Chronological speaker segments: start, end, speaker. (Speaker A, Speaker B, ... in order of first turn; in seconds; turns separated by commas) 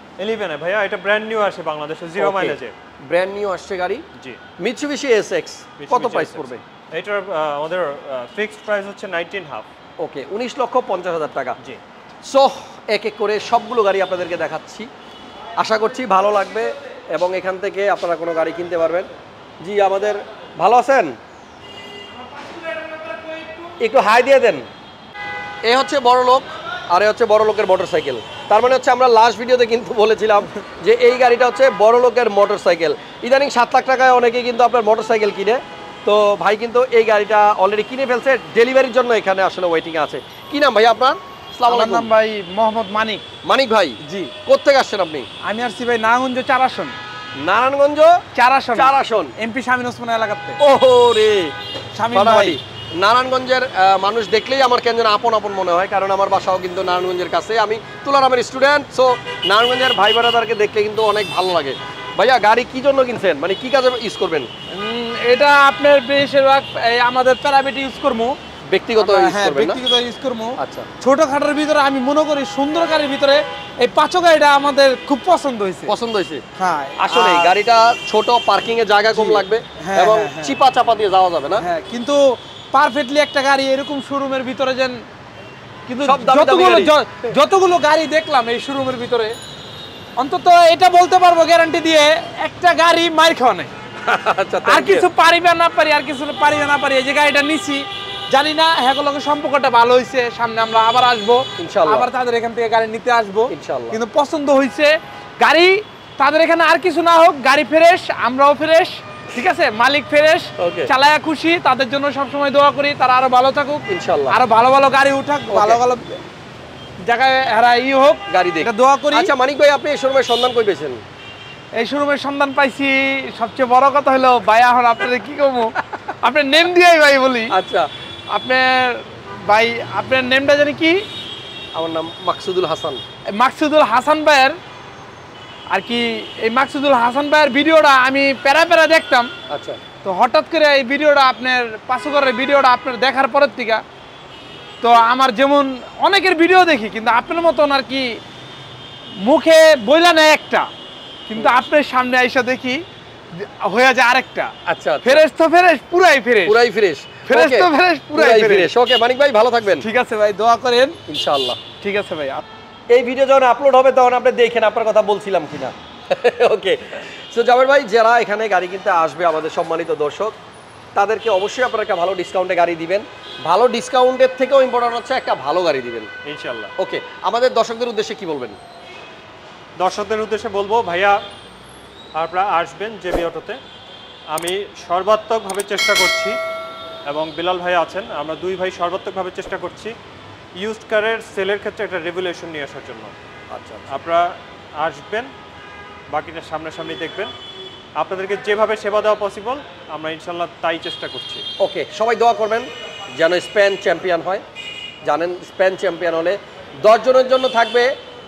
Speaker A: 0.2-2.8, Speaker B: 2.2-4.0, Speaker A: 4.2-4.4, Speaker B: 4.6-6.6, Speaker A: 5.8-9.7, Speaker B: 10.0-11.6, Speaker B: 12.2-14.9, Speaker B: 15.6-19.1, Speaker B: 19.6-21.1, Speaker C: 22.3-23.7, Speaker B: 23.8-24.6, Speaker B: 25.6-42.1, Speaker C: 41.7-43.2, Speaker B: 43.4-45.3, Speaker C: 44.0-44.3, Speaker C: 45.4-47.0, Speaker B: 47.4-48.2, Speaker C: 48.4-50.6, Speaker B: 48.7-49.3, Speaker B: 50.6-51.5, Speaker C: 52.0-52.6, Speaker B: 52.1-64.5, Speaker C: 64.7-68.4, Speaker B: 68.6-69.8, Speaker C: 69.0-75.9, Speaker B: 70.6-70.9, Speaker B: 75.9-76.4, Speaker C: 76.6-77.5, Speaker B: 77.0-81.7, Speaker C: 79.1-80.6, Speaker C: 81.6-85.0, Speaker C: 85.9-89.4, Speaker B: 86.0-87.0, Speaker C: 90.2-93.7, Speaker B: 94.0-95.1, Speaker C: 94.7-116.2, Speaker B: 101.6-102.1, Speaker B: 103.5-104.0, Speaker B: 110.6-110.9, Speaker B: 113.9-114.4, Speaker B: 115.5-115.8, Speaker C: 117.0-119.3, Speaker B: 118.3-121.0, Speaker C: 121.8-127.5, Speaker B: 127.5-127.9, Speaker C: 128.3-131.0, Speaker B: 131.8-133.0, Speaker C: 133.3-134.6, Speaker C: 135.7-139.3, Speaker B: 139.5-139.8, Speaker C: 140.0-143.8, Speaker C: 144.8-148.2, Speaker C: 149.2-150.7, Speaker C: 151.3-152.8, Speaker C: 153.3-154.5, Speaker B: 154.7-155.2, Speaker C: 155.0-156.6, Speaker B: 156.4-159.9, Speaker C: 157.3-158.7, Speaker C: 159.8-161.0, Speaker B: 161.1-161.6, Speaker C: 161.8-162.4, Speaker B: 162.9-170.4, Speaker B: 170.9-176.1, Speaker A: 176.2-176.7, Speaker B: 176.8-178.6, Speaker A: 179.8-181.2, Speaker A: 182.2-183.6, Speaker A: 184.3-186.4, Speaker A: 187.1-189.9, Speaker A: 190.6-193.1, Speaker B: 193.5-193.9, Speaker A: 193.9-195.3, Speaker A: 196.1-197.3, Speaker A: 198.0-201.4, Speaker B: 201.6-204.4, Speaker B: 205.0-207.9